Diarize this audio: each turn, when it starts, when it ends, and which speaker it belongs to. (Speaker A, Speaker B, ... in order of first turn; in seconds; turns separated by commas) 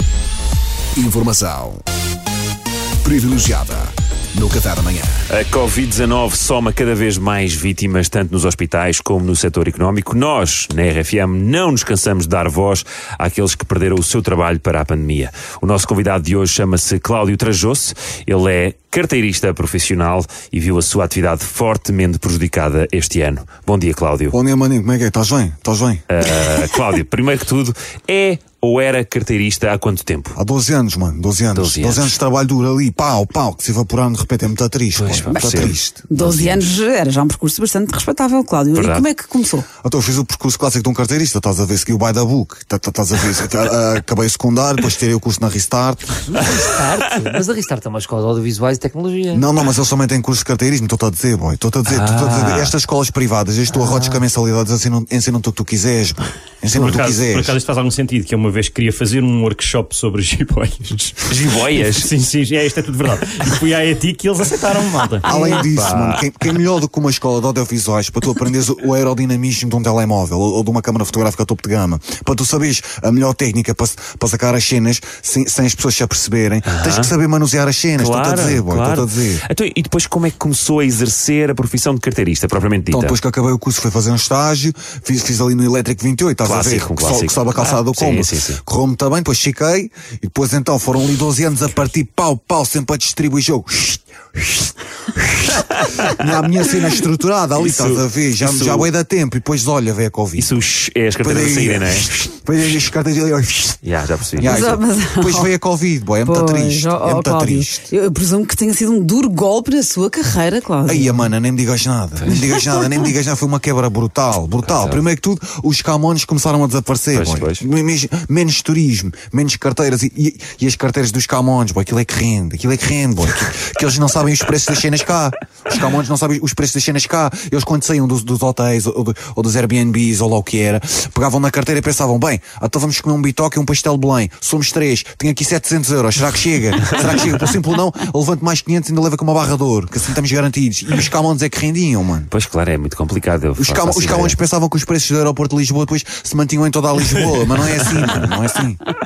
Speaker A: 0.9-1.8, Speaker A: 3.0-5.2, Speaker B: 5.3-24.3, Speaker C: 24.3-26.0, Speaker B: 26.1-30.4, Speaker C: 30.3-36.5, Speaker B: 31.5-32.2, Speaker B: 34.9-36.5, Speaker D: 35.3-39.6, Speaker B: 38.7-39.1, Speaker C: 39.8-46.1, Speaker E: 46.3-49.4, Speaker C: 49.3-57.6, Speaker B: 51.9-52.7, Speaker F: 56.7-65.3, Speaker B: 61.2-62.1, Speaker C: 65.2-79.4, Speaker D: 65.3-65.6, Speaker B: 65.5-66.3, Speaker B: 76.7-77.1, Speaker B: 78.0-83.2, Speaker C: 82.9-100.6, Speaker B: 86.4-88.6, Speaker B: 95.7-96.1, Speaker B: 97.6-98.9, Speaker B: 100.4-102.1, Speaker C: 101.2-103.8, Speaker B: 103.8-104.6, Speaker D: 104.4-105.5, Speaker C: 104.4-107.9, Speaker D: 106.2-111.2, Speaker C: 110.8-142.3, Speaker B: 112.2-112.5, Speaker B: 114.6-115.0, Speaker B: 117.1-117.6, Speaker B: 137.0-137.2, Speaker B: 142.3-144.4, Speaker C: 143.6-148.8